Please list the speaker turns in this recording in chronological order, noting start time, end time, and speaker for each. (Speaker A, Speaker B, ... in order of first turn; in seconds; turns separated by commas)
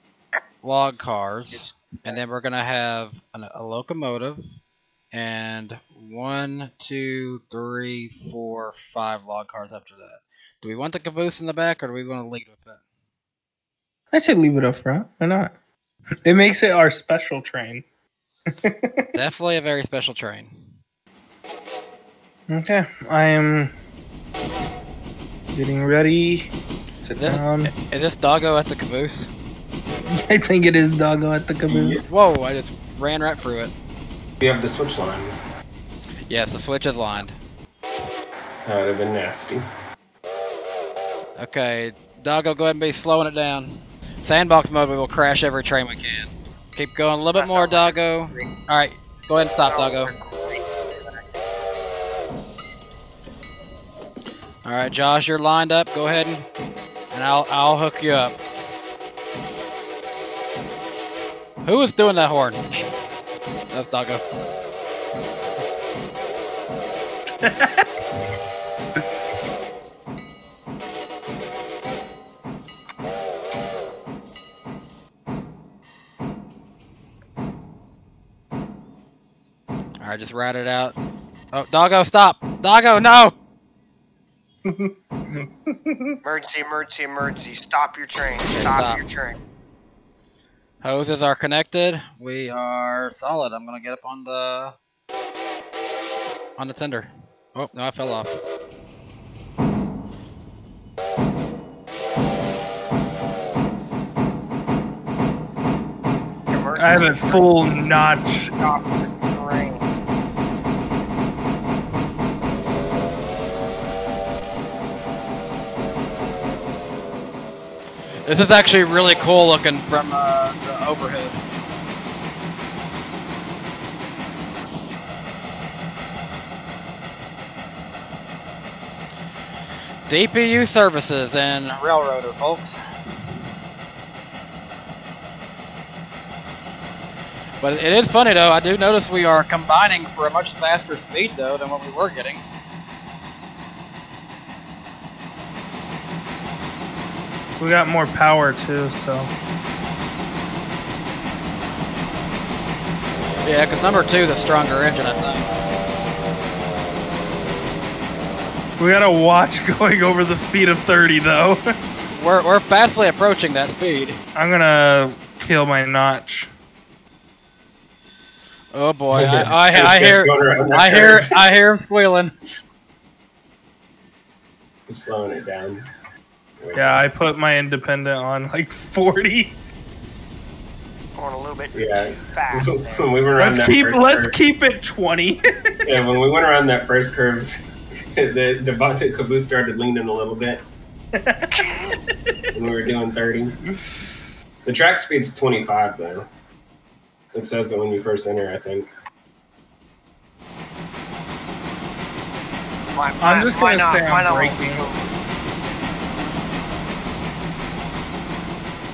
Speaker A: 0.6-4.4, Speaker B: 1.5-2.2, Speaker A: 5.1-12.8, Speaker C: 14.1-15.5, Speaker C: 16.2-17.9, Speaker C: 18.5-19.1, Speaker A: 19.1-20.7, Speaker C: 22.5-23.7, Speaker C: 25.5-26.5, Speaker C: 27.0-27.7, Speaker A: 27.1-29.3, Speaker C: 30.1-32.0, Speaker D: 31.7-32.0, Speaker A: 32.0-33.7, Speaker D: 34.4-35.3, Speaker A: 36.3-37.4, Speaker D: 38.7-39.6, Speaker A: 41.4-50.1, Speaker B: 47.3-48.5, Speaker B: 49.7-51.5, Speaker A: 54.6-56.5, Speaker A: 57.1-58.4, Speaker A: 61.6-62.6, Speaker A: 63.7-64.2, Speaker C: 67.4-67.9, Speaker A: 80.0-81.0, Speaker A: 81.5-83.3, Speaker C: 84.7-86.2, Speaker B: 86.2-89.4, Speaker A: 88.5-89.0, Speaker A: 90.8-94.8, Speaker A: 96.6-98.4, Speaker B: 106.5-107.6, Speaker C: 106.8-108.6, Speaker B: 108.6-109.9, Speaker A: 118.2-121.4, Speaker A: 130.1-132.8, Speaker A: 137.6-142.4, Speaker C: 147.6-149.3, Speaker A: 153.4-155.4, Speaker C: 158.8-161.6, Speaker A: 162.1-164.2, Speaker C: 164.4-166.5, Speaker A: 168.7-172.3, Speaker D: 169.1-171.3, Speaker D: 174.9-175.8, Speaker D: 176.6-177.1, Speaker C: 176.7-179.6, Speaker B: 181.2-183.1, Speaker D: 181.7-184.4, Speaker C: 183.4-185.7, Speaker D: 185.9-187.6, Speaker D: 188.2-190.6, Speaker C: 191.1-191.6, Speaker B: 191.5-192.0, Speaker D: 192.6-193.6, Speaker D: 194.7-196.3, Speaker D: 197.3-198.9, Speaker B: 202.9-205.1, Speaker C: 203.2-204.9